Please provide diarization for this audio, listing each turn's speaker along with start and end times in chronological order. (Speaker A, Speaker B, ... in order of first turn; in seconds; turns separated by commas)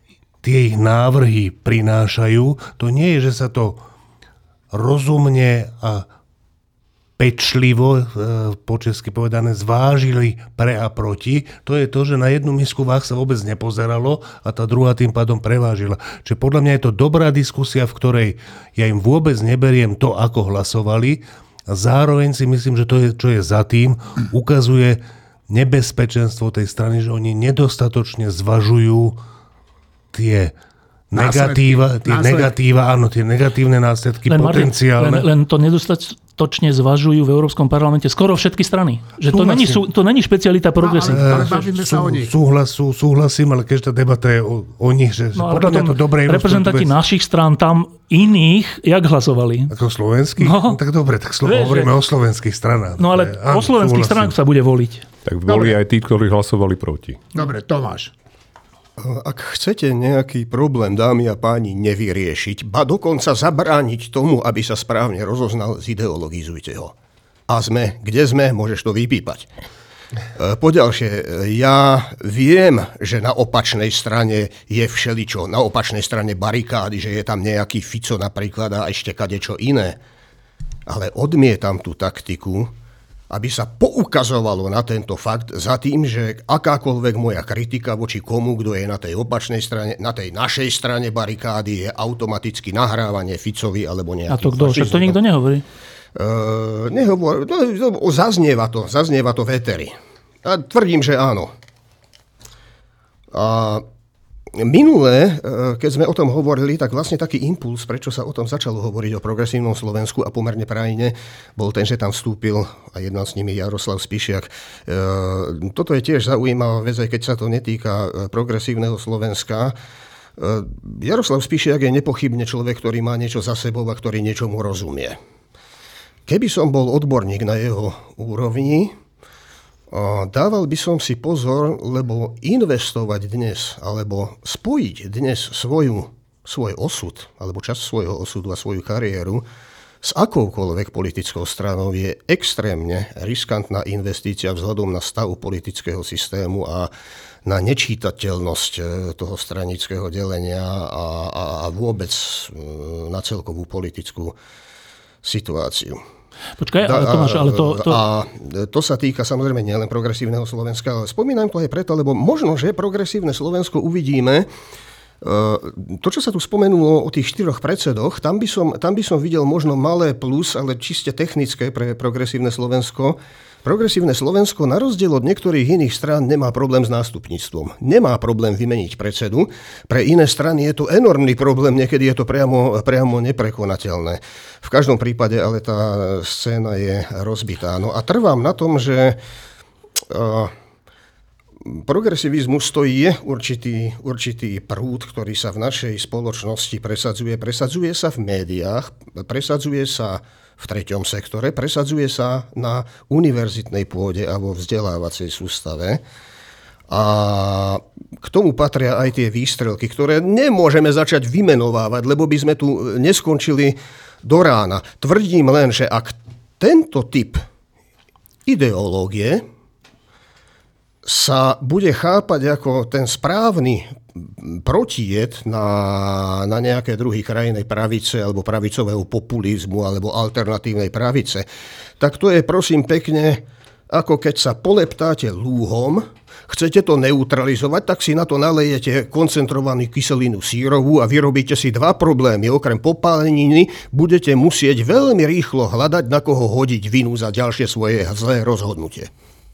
Speaker A: 0.4-3.8, Speaker A: 4.7-6.1, Speaker A: 7.2-29.2, Speaker A: 30.1-30.6, Speaker A: 31.1-35.3, Speaker B: 31.2-32.5, Speaker C: 34.3-41.6, Speaker A: 39.3-39.8, Speaker B: 40.8-42.3, Speaker A: 41.1-47.0, Speaker C: 45.4-49.8, Speaker A: 49.7-54.4, Speaker C: 50.4-50.8, Speaker C: 51.4-51.9, Speaker C: 53.0-55.1, Speaker D: 55.3-57.2, Speaker B: 55.5-55.8, Speaker B: 57.4-58.1, Speaker E: 59.0-66.9, Speaker E: 67.5-69.5, Speaker E: 70.4-80.0, Speaker E: 80.9-82.7, Speaker E: 83.3-95.2, Speaker C: 94.3-95.6, Speaker E: 96.2-101.5, Speaker E: 103.3-103.9, Speaker E: 104.5-119.8, Speaker E: 120.4-125.2, Speaker E: 126.3-128.9, Speaker E: 129.9-139.5, Speaker E: 140.0-146.9, Speaker E: 147.4-154.4, Speaker E: 155.2-156.0, Speaker C: 156.6-158.0, Speaker E: 156.8-164.5, Speaker E: 165.2-189.2, Speaker E: 190.1-190.5, Speaker E: 191.6-206.0, Speaker E: 206.9-217.4, Speaker E: 218.5-219.4, Speaker E: 221.1-231.5, Speaker E: 232.0-249.1